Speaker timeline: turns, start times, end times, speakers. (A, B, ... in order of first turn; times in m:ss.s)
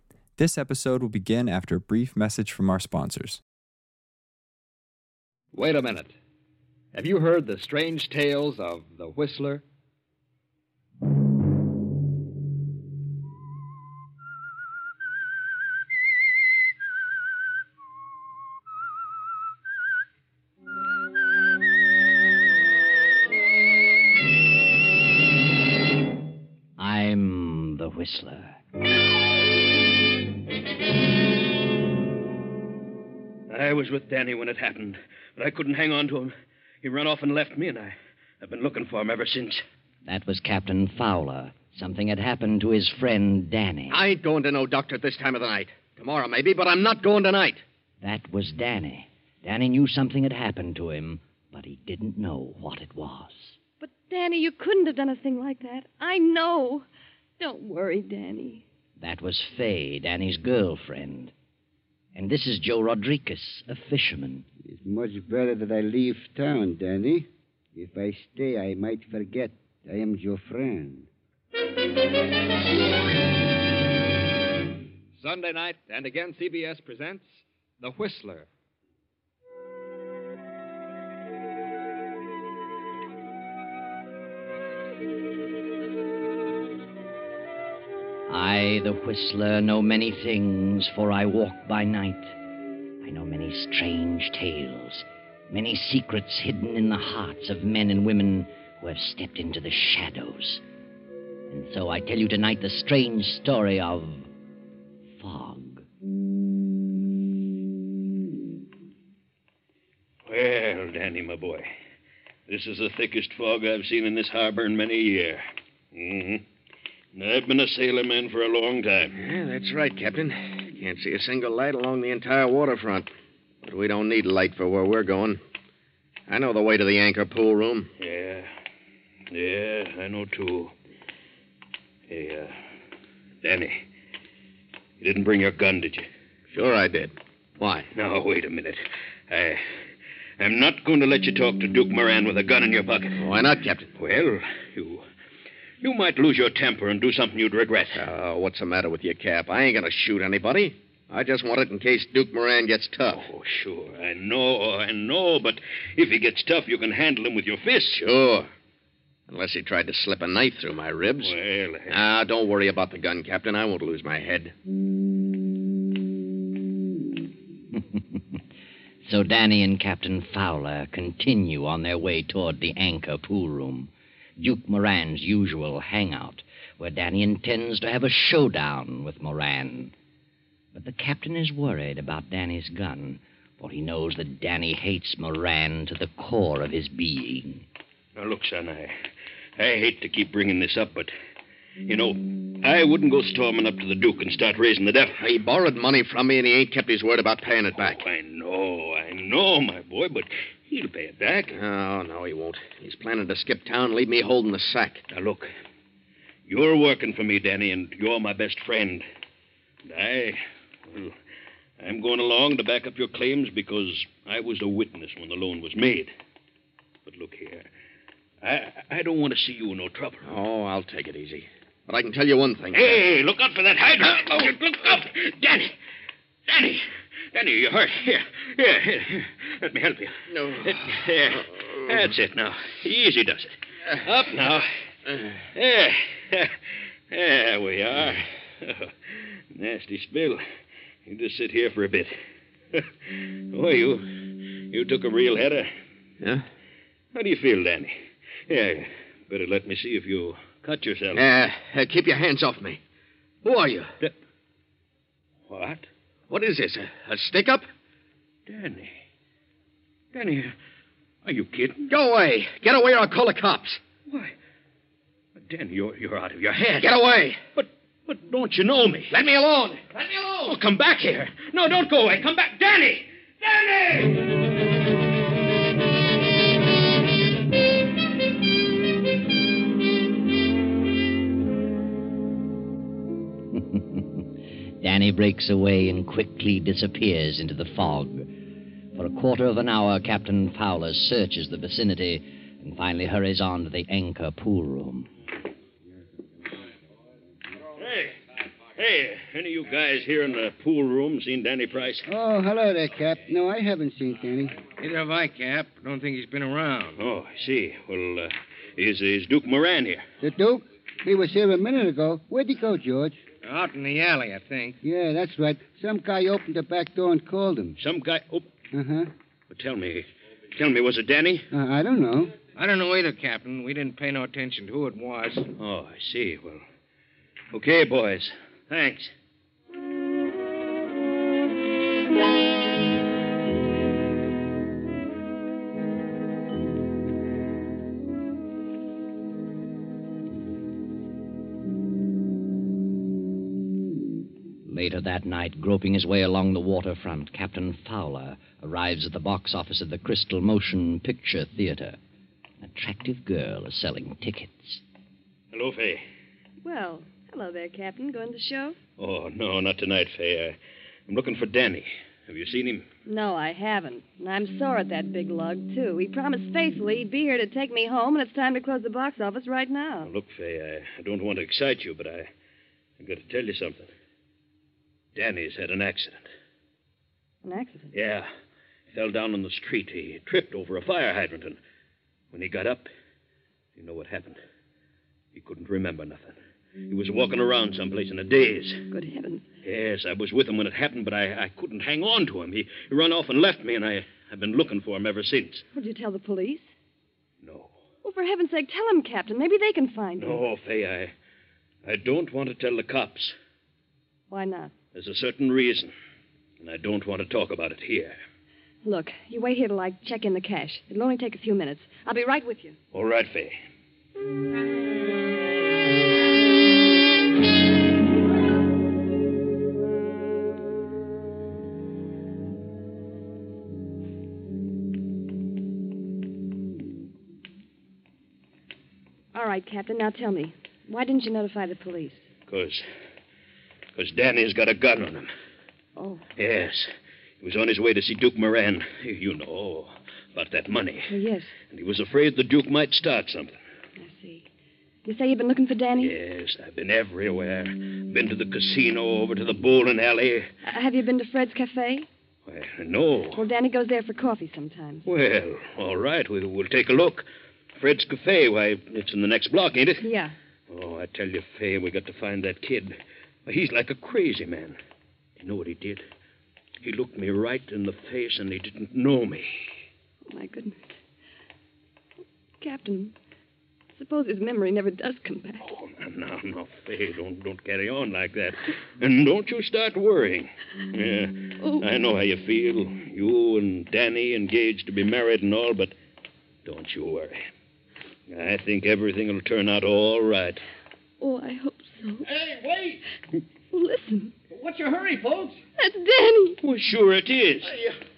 0:00.4-0:03.4 A
0:05.5-0:06.1 B
0:06.9-0:09.6 B
0:26.8-0:28.6 C
0:33.5-0:39.6 D
0:40.0-0:44.0 C
0:43.9-0:47.6 E
0:48.0-0:53.6 C
0:53.8-0:56.8 F
0:57.4-0:58.6 F
0:59.0-1:01.3 C
1:02.1-1:04.4 C
1:04.6-1:11.1 G
1:15.2-1:18.5 B
1:28.3-1:32.4 C
1:33.0-1:40.6 C
1:41.5-1:44.3 C
1:45.2-1:45.8 C
1:50.2-1:51.7 D
1:52.5-1:56.4 D
1:57.1-1:59.2 D
1:59.2-2:03.1 E
2:03.6-2:05.4 E
2:06.3-2:07.9 E
2:08.0-2:08.5 D
2:09.3-2:10.7 D
2:12.1-2:12.6 D
2:13.4-2:13.8 D
2:15.0-2:16.1 D
2:16.5-2:17.9 E
2:17.9-2:19.6 D
2:20.4-2:23.2 D
2:23.2-2:23.9 E
2:24.0-2:25.0 D
2:25.8-2:28.0 D
2:27.9-2:33.2 E
2:33.1-2:38.0 D
2:37.9-2:38.5 E
2:39.3-2:41.3 E
2:41.2-2:41.9 D
2:41.9-2:44.5 E
2:47.8-2:48.4 C
2:49.0-2:59.9 C
3:00.7-3:07.6 C
3:08.2-3:08.9 D
3:09.6-3:11.1 D
3:11.8-3:15.2 D
3:15.2-3:18.0 E
3:17.8-3:21.6 D
3:21.5-3:25.0 E
3:25.1-3:25.5 D
3:26.5-3:29.0 D
3:29.8-3:31.2 D
3:31.8-3:36.1 D
3:37.0-3:37.7 D
3:38.4-3:40.3 D
3:40.2-3:43.0 E
3:42.7-3:45.7 D
3:46.5-3:54.7 D
3:50.3-3:51.8 E
3:55.5-3:56.5 D
3:57.1-4:00.4 D
4:01.0-4:02.1 D
4:02.7-4:05.7 D
4:07.1-4:07.9 D
4:08.5-4:11.2 D
4:11.1-4:12.8 E
4:13.4-4:13.9 E
4:15.5-4:15.9 D
4:16.3-4:17.6 E
4:18.5-4:18.9 D
4:20.1-4:20.5 D
4:21.2-4:21.9 D
4:21.9-4:23.8 E
4:25.4-4:27.0 D
4:26.8-4:27.4 E
4:27.6-4:29.1 D
4:29.1-4:30.6 E
4:30.4-4:34.2 D
4:43.5-4:44.3 C
4:44.8-4:48.3 C
4:48.9-4:55.1 C
4:57.8-4:58.2 D
4:58.7-5:02.0 D
5:02.1-5:04.6 G
5:04.8-5:07.0 H
5:07.0-5:10.0 D
5:10.2-5:13.2 G
5:13.4-5:14.8 H
5:14.8-5:17.8 G
5:17.8-5:18.5 D
5:18.7-5:19.1 G
5:19.5-5:21.5 D
5:21.5-5:22.3 G
5:22.5-5:25.5 H
5:25.6-5:26.6 D
5:27.5-5:29.1 D
5:44.6-5:52.0 C
5:52.6-5:54.8 C
5:55.5-5:56.0 D
5:56.6-5:58.8 F
5:59.0-6:00.6 D
6:01.1-6:02.8 D
6:03.0-6:10.1 F
6:10.0-6:12.3 D
6:13.0-6:13.9 D
6:15.1-6:16.3 D
6:17.4-6:17.9 F
6:17.9-6:18.3 D
6:18.9-6:21.6 D
6:22.3-6:22.9 D
6:23.7-6:24.4 D
6:25.3-6:26.4 D
6:26.9-6:28.9 D
6:28.9-6:29.4 F
6:29.6-6:35.6 D
6:35.7-6:36.7 F
6:37.4-6:37.8 D
6:38.0-6:40.4 F
6:40.2-6:41.1 D
6:41.8-6:43.3 D
6:44.3-6:44.7 F
6:44.9-6:45.9 D
6:46.6-6:48.2 D
6:48.8-6:52.8 F
6:52.9-6:53.6 D
7:09.3-7:12.3 F
7:12.5-7:12.8 D
7:14.0-7:15.3 D
7:16.0-7:16.2 F
7:16.4-7:16.9 D
7:17.4-7:21.1 D
7:21.1-7:21.5 F
7:21.7-7:23.6 D
7:24.0-7:24.4 F
7:25.0-7:26.2 F
7:26.0-7:30.5 D
7:30.6-7:32.1 F
7:32.4-7:33.4 D
7:33.3-7:35.0 F
7:35.0-7:40.0 D
7:40.0-7:40.3 F
7:40.7-7:42.9 D
7:43.4-7:44.8 D
7:45.4-7:46.0 D
7:46.8-7:49.6 D
7:50.2-7:50.8 F
7:52.6-7:53.1 F
7:54.0-7:55.6 F
7:55.6-8:05.9 D
8:01.6-8:01.8 F
8:06.6-8:07.4 D
8:08.3-8:10.6 D
8:11.2-8:12.3 F
8:12.3-8:13.0 E
8:13.7-8:14.3 F
8:14.5-8:15.6 E
8:15.8-8:16.6 F
8:16.6-8:17.7 D
8:17.6-8:18.0 E